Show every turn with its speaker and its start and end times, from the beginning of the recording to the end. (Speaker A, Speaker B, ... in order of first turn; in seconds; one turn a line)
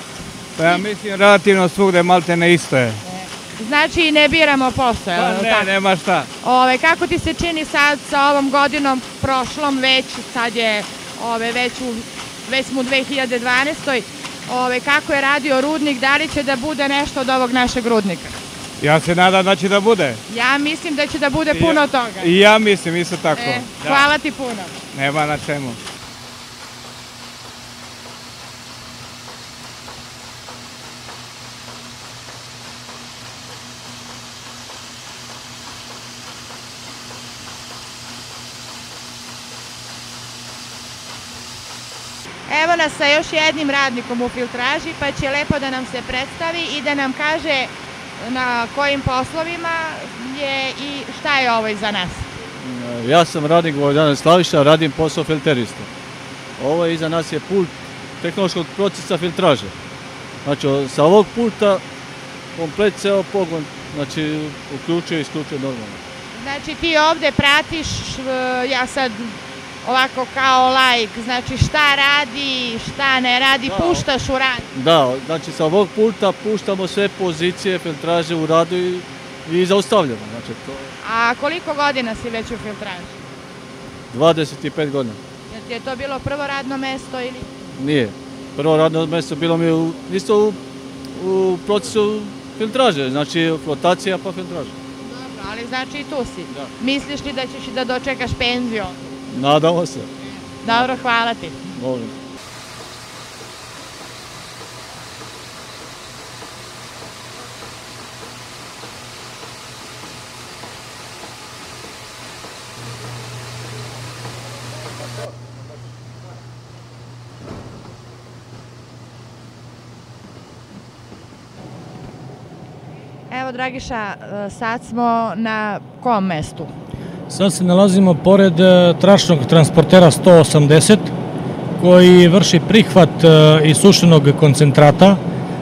Speaker A: 0.6-3.0
Speaker B: 3.2-5.7
Speaker A: 5.2-6.3
Speaker B: 6.4-18.3
Speaker A: 18.8-20.2
Speaker B: 20.3-22.3
Speaker A: 21.6-24.1
Speaker B: 23.4-24.7
Speaker A: 24.9-25.8
Speaker B: 42.5-52.3
Speaker C: 52.6-55.9
Speaker C: 56.6-59.7
Speaker C: 60.4-61.8
Speaker C: 62.6-66.0
Speaker B: 66.3-74.7
Speaker C: 73.7-74.1
Speaker C: 74.7-80.9
Speaker B: 81.0-83.2
Speaker C: 84.1-85.2
Speaker B: 85.5-87.5
Speaker C: 87.8-90.6
Speaker C: 91.2-94.8
Speaker B: 95.0-99.0
Speaker C: 99.3-100.1
Speaker B: 100.6-101.8
Speaker C: 101.8-102.1
Speaker B: 123.3-126.7
Speaker D: 127.3-131.1
Speaker D: 131.8-135.2